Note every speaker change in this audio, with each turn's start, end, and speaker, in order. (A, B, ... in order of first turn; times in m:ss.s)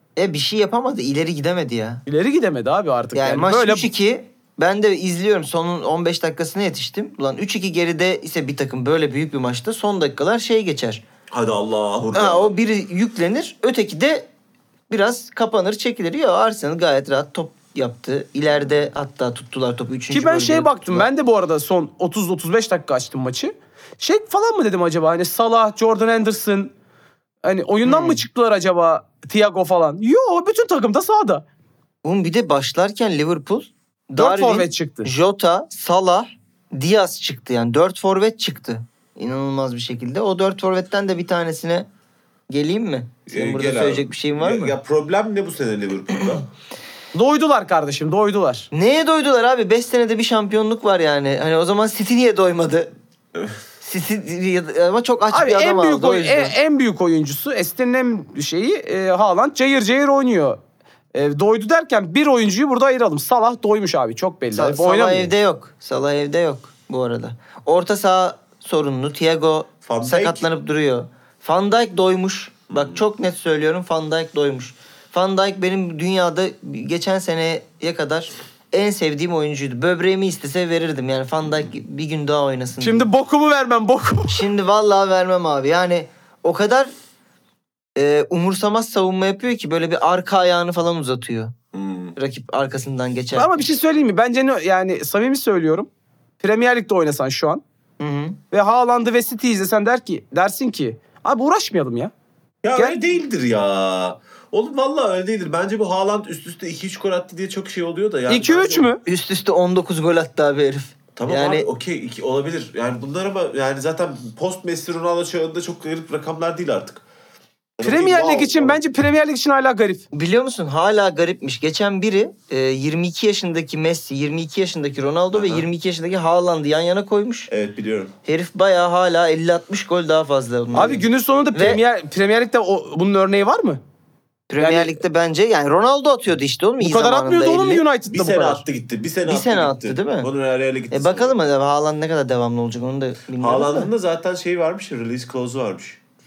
0:00.2-0:02.0 A
0:02.1-0:03.9 B
0:03.1-0:11.0 A
0:11.3-0:12.5 C
0:12.1-0:14.3 A
0:14.9-0:21.1 A
0:20.1-0:26.7 B
0:27.4-0:31.4 B
0:27.8-0:28.2 A
0:32.0-0:41.9 A
0:34.2-0:35.1 B
0:42.5-0:44.8 A
0:43.3-0:46.5 C
0:47.1-0:48.7 B
0:48.7-0:52.9 A
0:53.8-0:56.5 A
0:55.3-1:00.6 B
1:01.1-1:05.3 B
1:04.5-1:23.0 A
1:09.8-1:10.4 C
1:12.7-1:13.0 C
1:22.8-1:24.4 B
1:24.3-1:26.9 A
1:28.0-1:31.5 A
1:31.7-1:32.2 C
1:32.2-1:33.7 A
1:33.3-1:35.9 B
1:36.4-1:37.6 B
1:38.0-1:38.4 A
1:38.5-1:42.1 B
1:42.6-1:48.9 C
1:48.3-1:49.0 B
1:49.0-1:51.7 A
1:51.2-1:57.0 C
1:57.8-1:58.8 C
1:57.8-2:00.0 B
2:00.1-2:07.5 A
2:05.3-2:05.7 C
2:07.5-2:08.1 C
2:08.2-2:11.8 A
2:10.7-2:13.8 B
2:14.5-2:17.8 A
2:14.6-2:15.0 B
2:16.8-2:18.6 B
2:18.1-2:21.4 C
2:19.2-2:20.3 A
2:20.9-2:23.9 A
2:23.4-2:26.0 C